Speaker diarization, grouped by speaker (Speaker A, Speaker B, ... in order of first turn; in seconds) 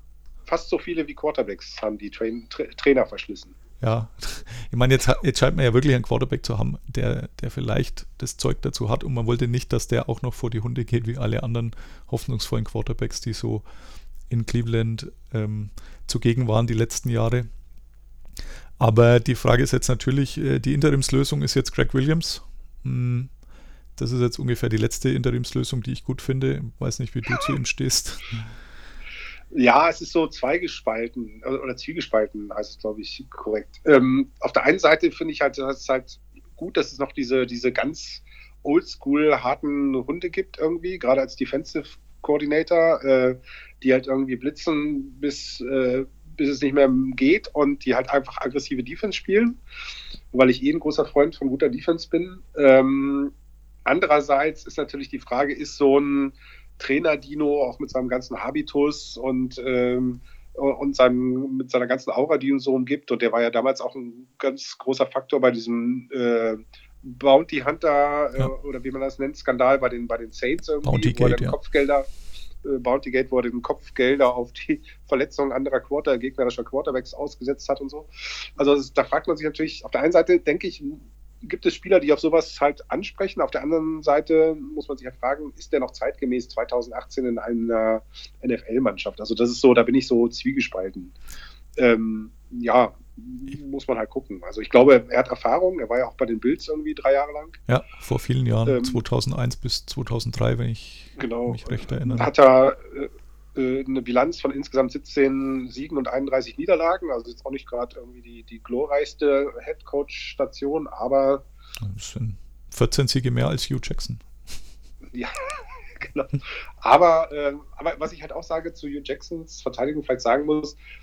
Speaker A: 0.5-3.5, 29.5-49.6, 50.3-53.3, 53.9-72.1, 72.6-91.1, 91.8-97.6, 98.7-99.0, 101.2-111.4, 115.1-120.8
Speaker B: 3.8-13.6, 14.3-17.5, 18.8-23.3, 24.0-28.4, 70.8-71.6, 97.7-102.3, 111.8-114.2